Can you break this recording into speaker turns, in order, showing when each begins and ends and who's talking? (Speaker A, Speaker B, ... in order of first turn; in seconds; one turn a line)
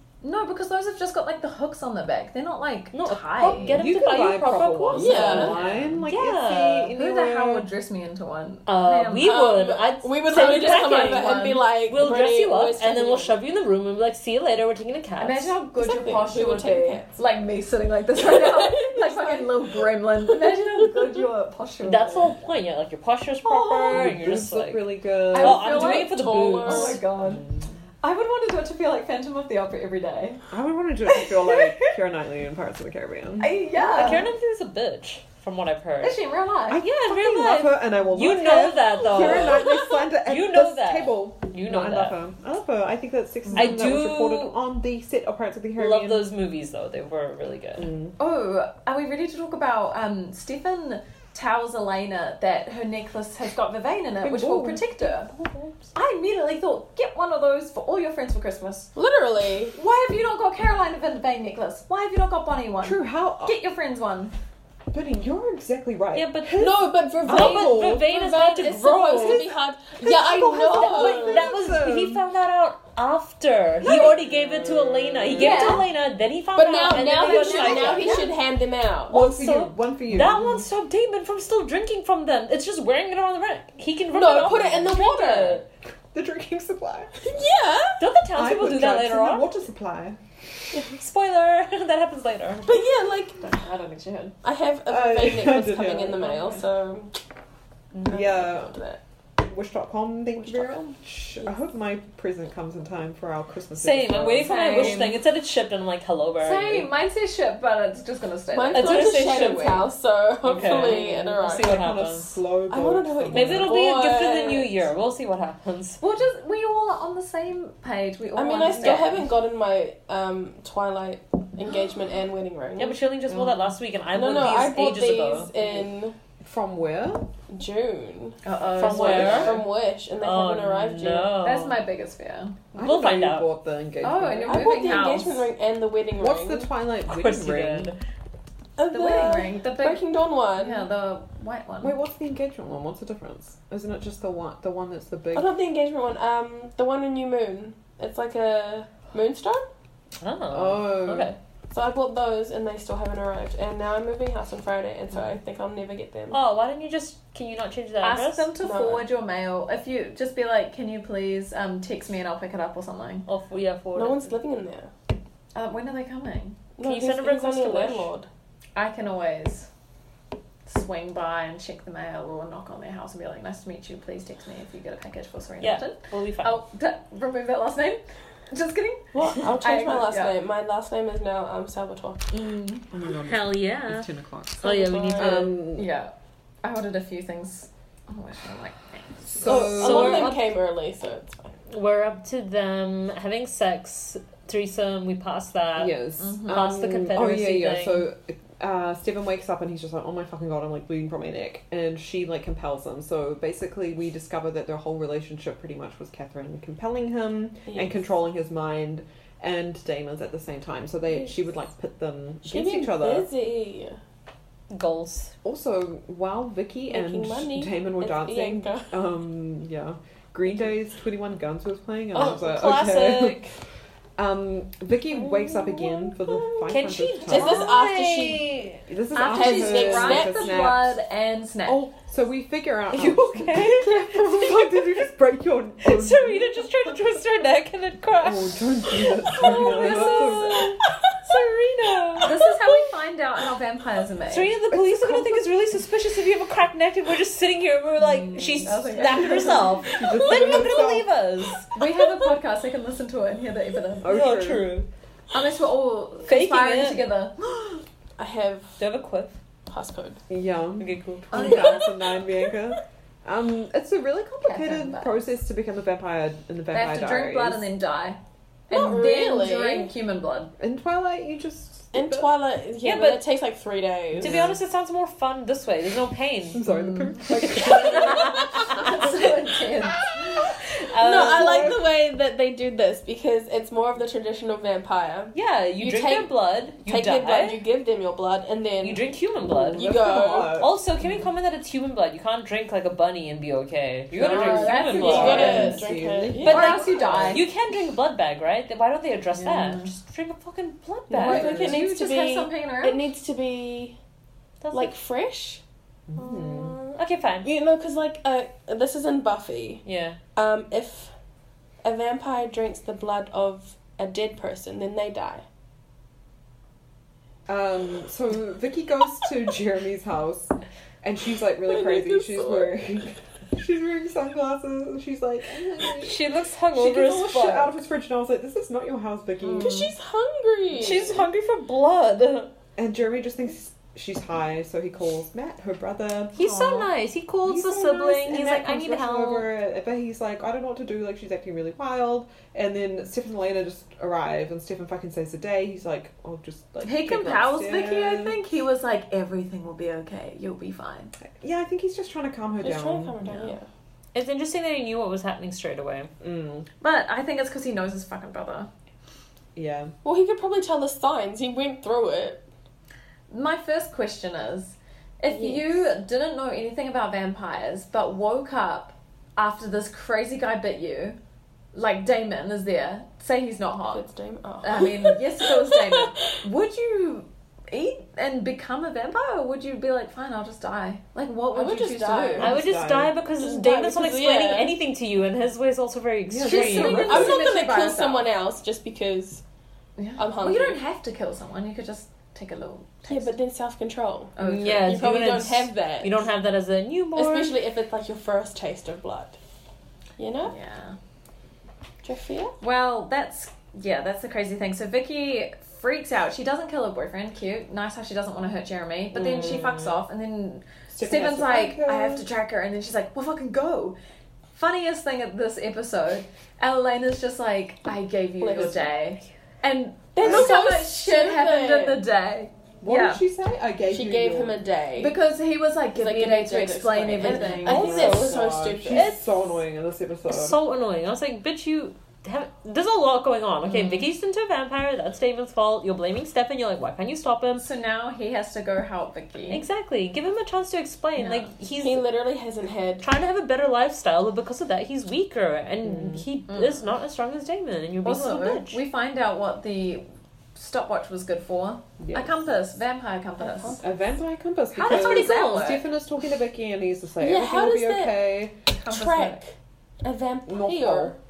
Speaker A: 0.2-3.9
Speaker B: 2.9-6.9
Speaker C: 3.7-7.7
Speaker D: 5.0-5.6
Speaker A: 5.6-5.9
Speaker A: 7.0-9.3
Speaker B: 8.7-15.5
Speaker D: 9.2-13.4
Speaker A: 10.3-11.6
Speaker A: 15.2-22.3
Speaker D: 15.8-17.1
Speaker D: 18.2-19.8
Speaker B: 21.8-27.0
Speaker A: 23.4-24.1
Speaker C: 23.9-25.8
Speaker A: 25.3-27.4
Speaker D: 25.7-27.0
Speaker C: 27.1-27.8
Speaker A: 28.0-30.4
Speaker C: 30.5-33.5
Speaker A: 31.1-31.9
Speaker A: 33.4-34.3
Speaker B: 33.8-36.2
Speaker A: 36.0-36.8
Speaker C: 36.7-46.3
Speaker B: 36.7-42.2
Speaker B: 43.5-44.6
Speaker B: 45.8-47.9
Speaker C: 47.8-48.2
Speaker A: 48.2-55.3
Speaker C: 54.2-55.4
Speaker A: 55.9-58.9
Speaker D: 59.0-59.8
Speaker A: 59.7-64.3
Speaker C: 62.8-63.6
Speaker C: 64.9-68.0
Speaker B: 66.1-69.5
Speaker D: 66.6-71.5
Speaker C: 69.1-72.2
Speaker B: 70.7-78.3
Speaker C: 73.8-75.8
Speaker A: 75.3-75.9
Speaker D: 76.5-79.2
Speaker A: 77.0-78.3
Speaker C: 79.1-80.6
Speaker B: 79.1-85.7
Speaker D: 84.1-85.6
Speaker C: 86.1-87.2
Speaker D: 87.2-88.1
Speaker B: 88.0-89.5
Speaker C: 88.3-90.2
Speaker B: 90.9-92.8
Speaker D: 92.7-93.5
Speaker A: 93.4-94.4
Speaker D: 94.4-97.2
Speaker C: 94.9-96.4
Speaker A: 96.2-96.6
Speaker C: 98.0-98.8
Speaker D: 98.0-99.0
Speaker C: 99.4-105.0
Speaker B: 103.8-106.9
Speaker A: 104.5-105.2
Speaker A: 106.4-109.9
Speaker D: 108.5-111.8
Speaker B: 108.7-109.9
Speaker B: 110.4-112.4
Speaker C: 110.6-113.8
Speaker D: 112.7-114.8
Speaker B: 113.3-116.0
Speaker A: 116.0-119.3
Speaker D: 118.3-123.0
Speaker B: 122.8-125.6
Speaker C: 123.3-123.8
Speaker D: 124.1-126.2
Speaker C: 126.4-127.3
Speaker D: 127.5-131.4
Speaker A: 128.4-129.5
Speaker B: 128.8-129.7
Speaker C: 128.8-129.6
Speaker B: 130.2-131.8
Speaker A: 131.4-132.6
Speaker B: 132.7-133.5
Speaker C: 132.7-134.7
Speaker A: 134.0-135.5
Speaker D: 134.5-136.7
Speaker C: 136.2-137.9
Speaker B: 137.1-138.0
Speaker D: 138.8-140.9
Speaker A: 138.9-140.0
Speaker A: 140.6-141.9
Speaker C: 141.8-145.5
Speaker D: 145.3-149.7
Speaker B: 150.2-151.4
Speaker C: 150.5-151.3
Speaker D: 151.7-156.4
Speaker B: 156.3-158.5
Speaker A: 158.0-163.2
Speaker D: 158.6-159.1
Speaker B: 163.3-164.4
Speaker D: 163.9-164.9
Speaker A: 165.6-166.6
Speaker D: 166.8-168.3
Speaker B: 166.8-168.1
Speaker A: 168.8-169.7
Speaker A: 170.7-180.4
Speaker B: 175.6-176.6
Speaker D: 179.1-182.3
Speaker A: 182.3-182.9
Speaker C: 182.9-185.9
Speaker B: 183.2-184.1
Speaker B: 184.6-185.6
Speaker D: 184.6-185.5
Speaker A: 185.8-186.1
Speaker A: 186.6-189.6
Speaker C: 189.3-190.3
Speaker D: 189.5-191.5
Speaker B: 189.5-190.5
Speaker B: 191.7-198.1
Speaker C: 195.8-213.3
Speaker A: 196.2-196.7
Speaker D: 207.7-208.0
Speaker D: 212.5-214.0
Speaker B: 214.7-215.3
Speaker C: 215.4-223.4
Speaker D: 216.9-218.9
Speaker B: 222.1-223.6
Speaker C: 224.2-227.7
Speaker D: 225.1-228.6
Speaker B: 226.7-228.8
Speaker C: 228.9-231.0
Speaker A: 229.1-231.9
Speaker D: 229.2-230.6
Speaker C: 231.7-236.7
Speaker B: 232.9-234.9
Speaker B: 235.8-242.4
Speaker C: 238.2-240.8
Speaker D: 239.4-240.5
Speaker A: 242.2-244.6
Speaker B: 244.3-252.0
Speaker C: 244.7-245.6
Speaker A: 248.0-249.8
Speaker C: 249.9-251.1
Speaker D: 250.2-250.7
Speaker A: 251.7-254.3
Speaker C: 254.0-254.8
Speaker B: 254.1-254.9
Speaker A: 255.3-257.4
Speaker B: 256.2-257.1
Speaker D: 258.2-258.8
Speaker B: 258.8-259.4
Speaker D: 259.7-260.2
Speaker C: 260.3-267.7
Speaker B: 260.8-261.8
Speaker A: 261.3-261.9
Speaker D: 261.4-262.5
Speaker A: 264.4-265.2
Speaker A: 266.7-270.6
Speaker D: 268.7-269.9
Speaker C: 270.6-272.3
Speaker D: 271.9-274.5
Speaker B: 272.8-273.3
Speaker C: 274.2-274.6
Speaker B: 274.2-276.6
Speaker C: 276.5-279.1
Speaker A: 276.6-280.1
Speaker B: 277.4-279.1
Speaker B: 280.9-281.8
Speaker D: 281.0-289.1
Speaker C: 281.0-281.9
Speaker B: 285.3-287.6
Speaker B: 288.8-295.9
Speaker C: 289.4-290.8
Speaker D: 289.7-290.6
Speaker C: 294.1-297.4
Speaker A: 294.2-295.8
Speaker D: 294.3-296.9
Speaker B: 296.4-301.6
Speaker A: 296.5-297.5
Speaker A: 299.3-300.0
Speaker D: 301.1-304.0
Speaker A: 301.2-303.1
Speaker C: 301.2-301.8
Speaker B: 304.6-304.9
Speaker D: 304.7-305.6
Speaker C: 306.1-306.7
Speaker B: 306.2-307.5
Speaker D: 307.4-309.8
Speaker B: 309.9-310.2
Speaker D: 310.4-311.1
Speaker D: 311.8-315.4
Speaker C: 317.5-326.2
Speaker D: 321.7-323.0
Speaker B: 325.9-327.7
Speaker C: 326.7-329.8
Speaker A: 329.4-329.9
Speaker D: 329.6-331.3
Speaker B: 330.7-332.5
Speaker C: 332.8-336.4
Speaker B: 336.4-339.5
Speaker A: 336.4-336.9
Speaker C: 337.4-348.4
Speaker A: 346.8-351.1
Speaker C: 351.2-353.5
Speaker D: 352.6-353.7
Speaker B: 354.1-356.1
Speaker C: 356.2-356.7
Speaker A: 356.8-358.7
Speaker C: 359.6-359.9
Speaker D: 360.0-362.5
Speaker A: 363.3-371.2
Speaker D: 365.3-365.8
Speaker A: 371.7-374.1
Speaker D: 373.9-376.3
Speaker A: 374.6-382.6
Speaker D: 381.5-382.6
Speaker B: 382.4-387.1
Speaker C: 382.4-383.1
Speaker D: 383.4-384.8
Speaker C: 386.3-387.5
Speaker A: 386.4-388.3
Speaker D: 386.9-389.4
Speaker A: 390.0-393.3
Speaker D: 390.2-390.8
Speaker D: 393.1-396.3
Speaker A: 394.4-394.9
Speaker B: 394.4-397.6
Speaker D: 397.1-399.4
Speaker D: 400.2-400.6
Speaker A: 400.5-401.0
Speaker D: 402.0-402.6
Speaker A: 402.6-414.0
Speaker B: 409.1-409.9
Speaker C: 410.9-412.3
Speaker A: 414.6-423.2
Speaker D: 418.4-418.9
Speaker D: 420.1-422.1
Speaker C: 420.2-420.6
Speaker C: 422.8-424.6
Speaker D: 423.9-425.2
Speaker A: 425.0-428.2
Speaker D: 425.9-429.2
Speaker C: 427.3-430.6
Speaker B: 427.7-428.4
Speaker B: 428.9-429.2
Speaker B: 430.3-437.7
Speaker A: 433.7-434.1
Speaker A: 437.6-439.6
Speaker B: 439.5-442.1
Speaker A: 441.2-441.5
Speaker D: 441.8-443.1
Speaker B: 443.0-448.8
Speaker C: 445.9-446.3
Speaker A: 446.5-446.8
Speaker A: 448.0-453.8
Speaker C: 452.0-452.5
Speaker D: 453.4-453.9
Speaker C: 453.8-458.6
Speaker A: 454.7-455.8
Speaker B: 454.9-455.5
Speaker D: 457.2-458.3
Speaker A: 458.7-459.4
Speaker D: 458.9-461.2
Speaker C: 460.5-461.2